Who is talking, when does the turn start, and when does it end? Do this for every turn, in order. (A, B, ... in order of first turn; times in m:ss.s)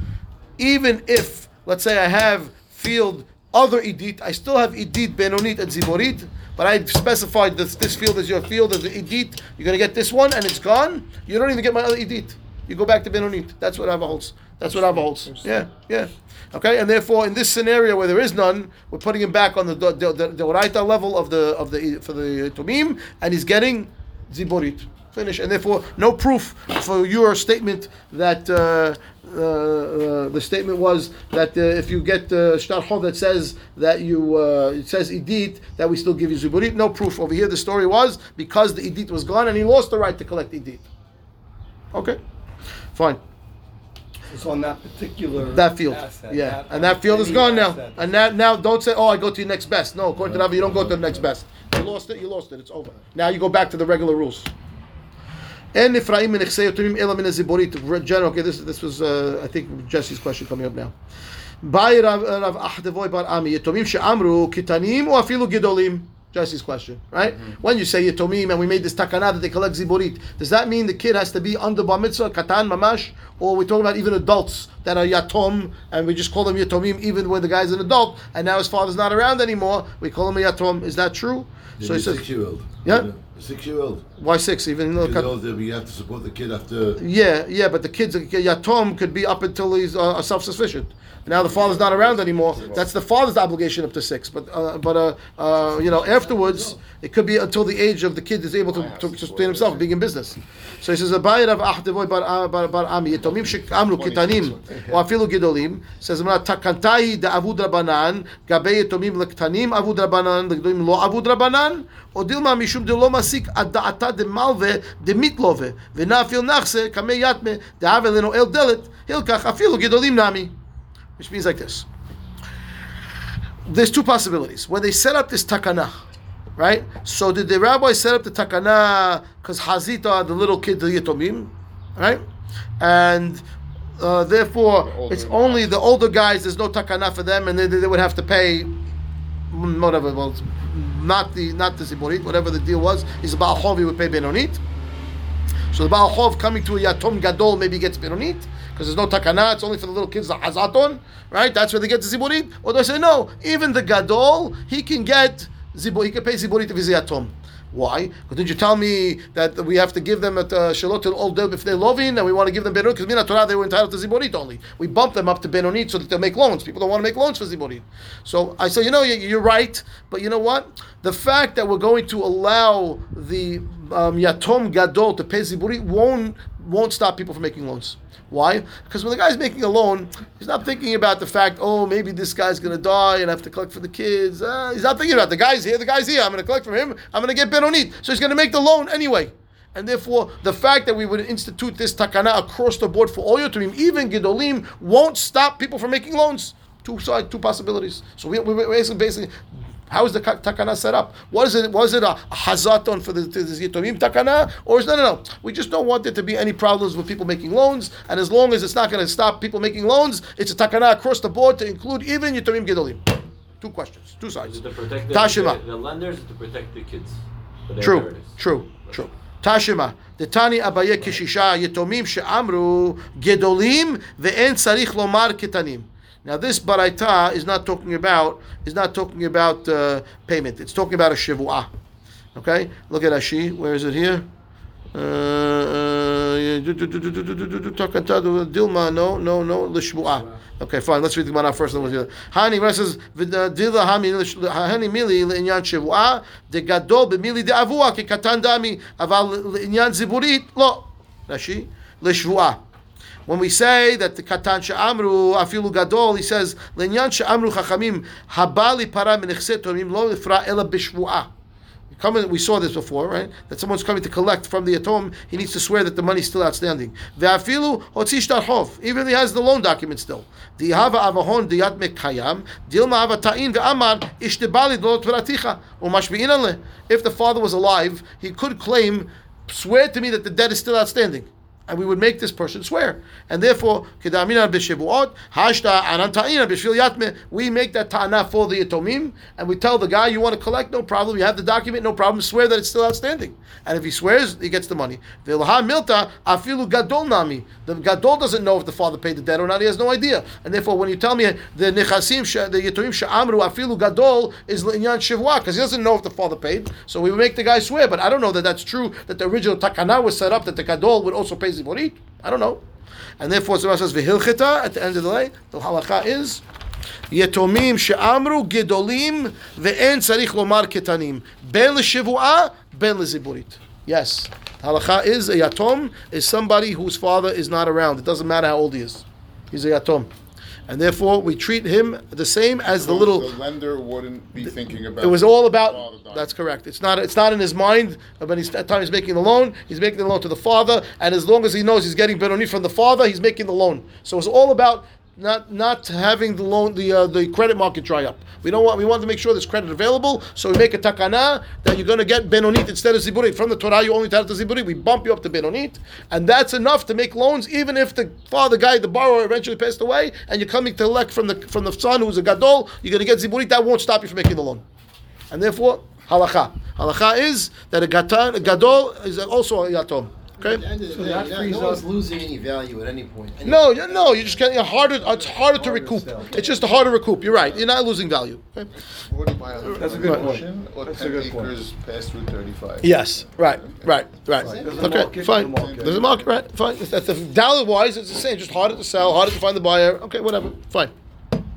0:00.6-0:40.8 A
0:14.6-0:15.5 B
0:41.9-0:42.2 A
0:42.9-0:43.2 A
0:44.3-0:48.2 C
0:45.5-0:54.5 A
0:50.2-0:51.3 D
0:55.7-1:00.9 A
1:01.6-1:22.2 A
1:07.2-1:07.6 B
1:21.8-1:24.0 D
1:24.2-1:25.3 A
1:24.9-1:27.0 D
1:27.0-2:00.5 A
1:31.2-1:32.9 B
1:38.7-1:39.9 B
1:43.1-1:45.0 B
2:01.2-2:01.9 A
2:03.6-2:06.0 A
2:06.6-2:12.2 A
2:12.8-2:13.4 A
2:14.0-2:18.7 A
2:14.8-2:15.9 B
2:19.5-2:24.6 A
2:25.7-3:19.3 A
3:19.9-3:33.0 A
3:33.6-3:34.6 A
3:34.4-3:38.3 E
3:35.1-3:35.6 A
3:37.8-3:51.7 A
3:52.3-3:54.2 A
3:54.9-4:12.6 A
4:13.3-4:21.3 A
4:21.9-5:12.6 A
5:13.2-5:16.4 A
5:17.1-5:30.1 A
5:30.7-5:33.3 A
5:32.7-5:36.4 B
5:35.0-6:04.6 A
6:05.3-6:10.6 A
6:10.4-6:14.7 F
6:10.9-6:11.9 C
6:13.4-6:18.7 A
6:14.8-6:16.4 C
6:16.2-6:16.9 F
6:17.2-6:17.7 B
6:19.0-6:26.3 B
6:19.6-6:21.5 C
6:22.8-6:30.9 A
6:24.4-6:24.9 F
6:24.4-6:26.0 C